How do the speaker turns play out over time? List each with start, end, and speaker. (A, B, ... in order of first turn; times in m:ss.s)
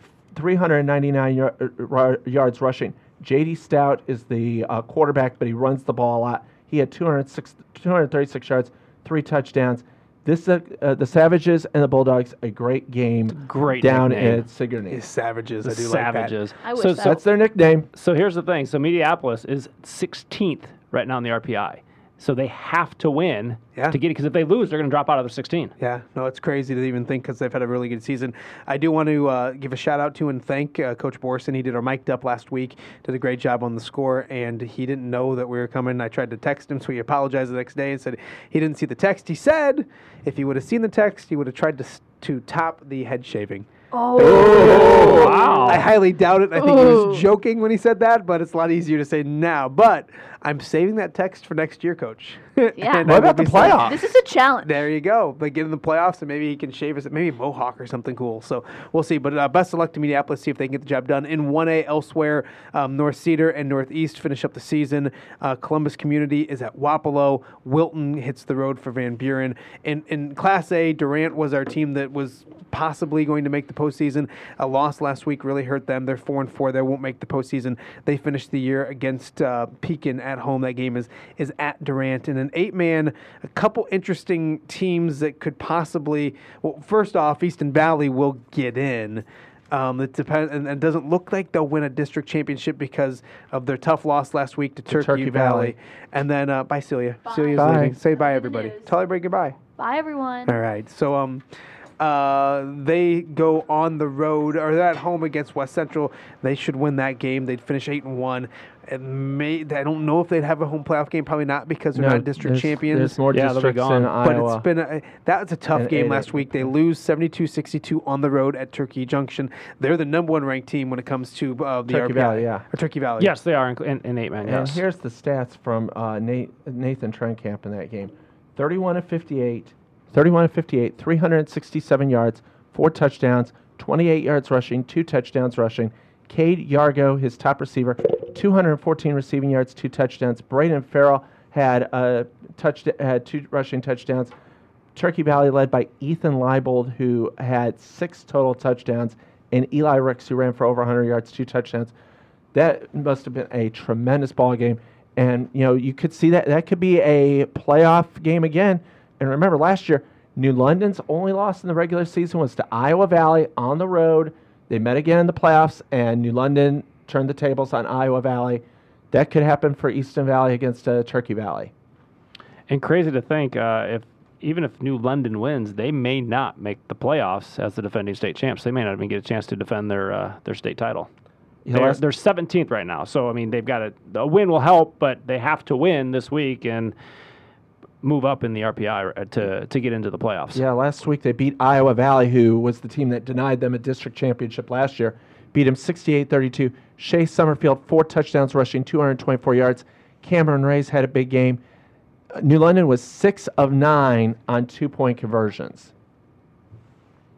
0:00.3-0:15.0 A
0:13.3-0:14.4 B
0:14.9-0:16.3 C
0:15.6-0:17.2 B
0:16.6-0:17.2 D
0:17.0-0:17.9 A
0:17.9-0:25.7 B
0:25.8-0:54.0 C
0:43.9-0:46.0 D
0:44.2-0:45.2 A
0:44.9-0:45.9 B
0:46.6-0:47.2 D
0:52.8-0:54.8 D
0:53.0-0:54.0 A
0:54.6-1:39.6 C
1:34.9-1:35.7 A
1:37.2-1:38.9 D
1:37.5-1:38.0 A
1:39.8-1:40.6 D
1:40.5-1:41.4 C
1:42.0-1:53.2 C
1:51.9-1:54.6 A
1:53.3-1:54.1 B
1:54.2-2:03.3 C
1:55.7-1:56.7 A
2:01.9-2:02.6 A
2:03.2-2:04.8 B
2:04.4-2:24.3 A
2:24.9-2:31.9 A
2:32.5-2:51.7 A
2:52.7-3:01.1 B
3:01.6-3:02.0 A
3:01.7-3:06.9 B
3:08.0-3:10.6 B
3:10.5-3:21.6 A
3:22.3-3:25.9 A